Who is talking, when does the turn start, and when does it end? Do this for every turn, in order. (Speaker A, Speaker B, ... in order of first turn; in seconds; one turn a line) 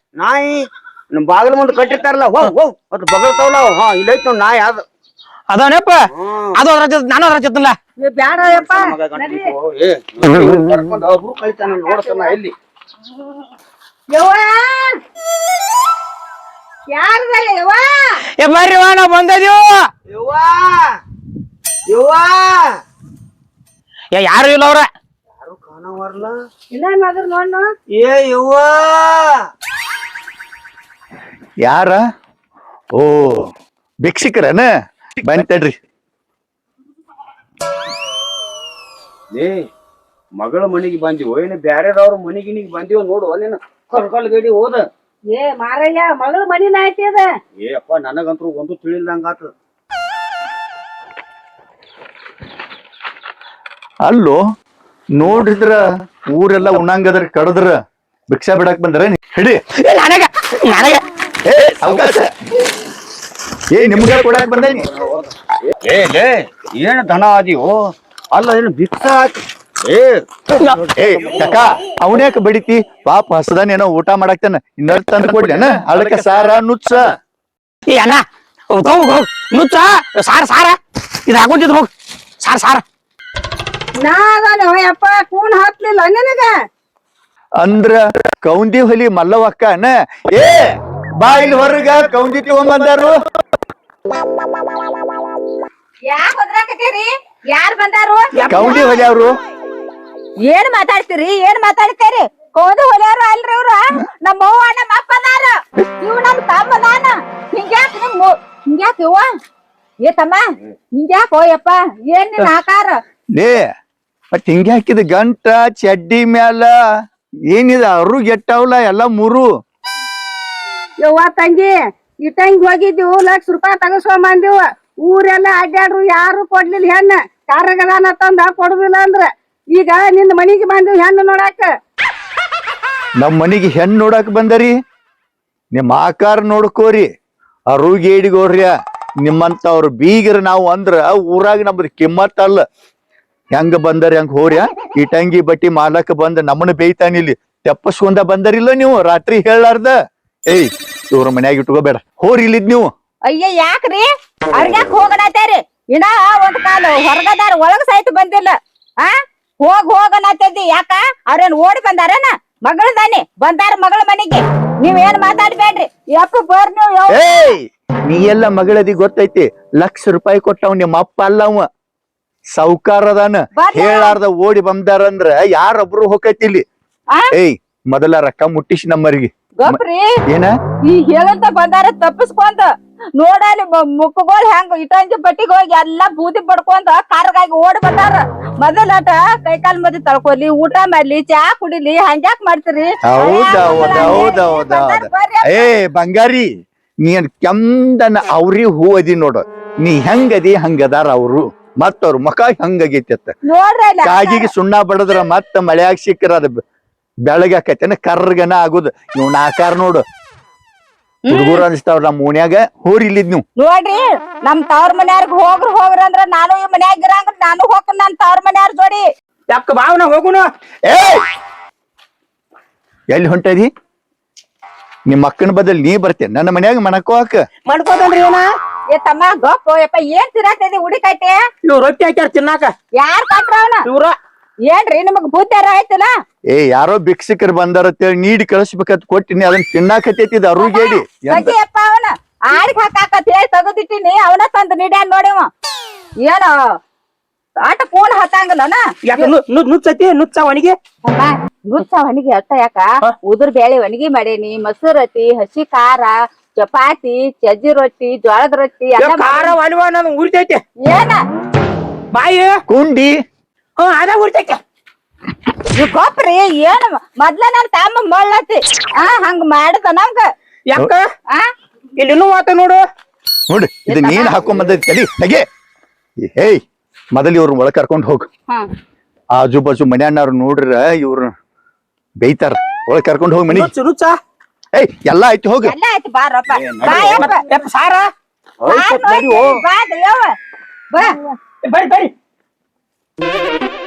Speaker A: 0.2-4.8
Speaker B: 5.5-6.0
Speaker A: 6.1-6.6
Speaker B: 6.5-7.8
Speaker C: 8.0-9.5
Speaker A: 8.4-12.5
Speaker C: 11.8-12.4
Speaker C: 14.1-15.0
Speaker C: 16.9-18.2
Speaker B: 18.4-19.8
Speaker A: 20.1-20.9
Speaker A: 21.9-22.7
Speaker B: 24.1-24.9
Speaker A: 25.4-26.4
Speaker C: 26.7-27.7
Speaker A: 27.9-29.4
Speaker D: 31.6-32.0
Speaker D: 33.0-33.5
Speaker D: 34.0-34.7
Speaker D: 35.2-35.8
Speaker A: 39.3-39.6
Speaker A: 40.4-44.9
Speaker C: 45.3-47.3
Speaker A: 47.6-49.5
Speaker D: 54.0-54.4
Speaker D: 55.2-57.8
Speaker D: 58.3-59.6
Speaker B: 59.8-61.0
Speaker D: 61.5-62.3
Speaker D: 63.7-64.9
Speaker A: 65.7-70.2
Speaker B: 70.6-70.9
Speaker D: 71.0-77.1
Speaker B: 77.9-81.9
Speaker B: 82.4-82.8
Speaker C: 84.0-86.5
Speaker D: 87.6-90.7
Speaker D: 91.2-93.1
Speaker E: 96.1-98.3
Speaker B: 98.3-98.9
Speaker D: 98.5-99.3
Speaker E: 100.5-109.3
Speaker E: 110.0-110.4
Speaker E: 111.0-113.0
Speaker D: 113.4-113.6
Speaker D: 114.3-116.7
Speaker D: 117.5-119.5
Speaker C: 121.0-131.7
Speaker D: 133.2-134.8
Speaker D: 135.7-137.1
Speaker D: 137.7-142.6
Speaker D: 143.5-150.0
Speaker D: 150.5-152.9
Speaker E: 153.3-167.2
Speaker D: 167.1-171.7
Speaker D: 172.6-176.6
Speaker E: 173.6-174.2
Speaker D: 177.3-180.5
Speaker E: 179.6-180.2
Speaker E: 180.9-195.7
Speaker D: 193.1-196.5
Speaker D: 197.0-203.3
Speaker E: 203.5-204.5
Speaker D: 204.0-206.6
Speaker D: 207.3-210.0
Speaker E: 211.2-211.6
Speaker D: 211.3-213.4
Speaker E: 213.6-219.1
Speaker B: 219.5-220.5
Speaker D: 220.9-221.2
Speaker D: 223.1-223.7
Speaker D: 225.1-227.4
Speaker B: 227.7-228.4
Speaker E: 228.9-231.4
Speaker B: 231.7-232.7
Speaker E: 233.0-233.8
Speaker B: 233.9-234.1
Speaker E: 234.7-236.1
Speaker D: 236.5-241.5
Speaker E: 240.6-245.5
Speaker E: 246.2-246.6
Speaker E: 247.6-249.3
Speaker B: 249.1-250.8
Speaker E: 251.0-259.5
Speaker B: 259.0-260.6
Speaker E: 260.9-261.2
Speaker B: 262.1-262.6
Speaker D: 262.7-263.1
Speaker B: 263.8-264.6
Speaker E: 265.7-270.3
Speaker B: 270.7-271.0
Speaker B: 272.0-272.8
Speaker D: 273.5-275.4
Speaker E: 273.9-274.4
Speaker D: 276.2-276.6
Speaker D: 277.1-278.3
Speaker D: 279.4-281.3
Speaker D: 282.2-283.7
Speaker B: 283.5-284.2
Speaker D: 284.7-285.8
Speaker E: 285.6-287.4
Speaker A: 286.6-287.2
Speaker B: 286.9-288.1
Speaker E: 288.7-290.4
Speaker B: 288.7-289.6
Speaker C: 291.0-291.4
Speaker B: 291.6-292.1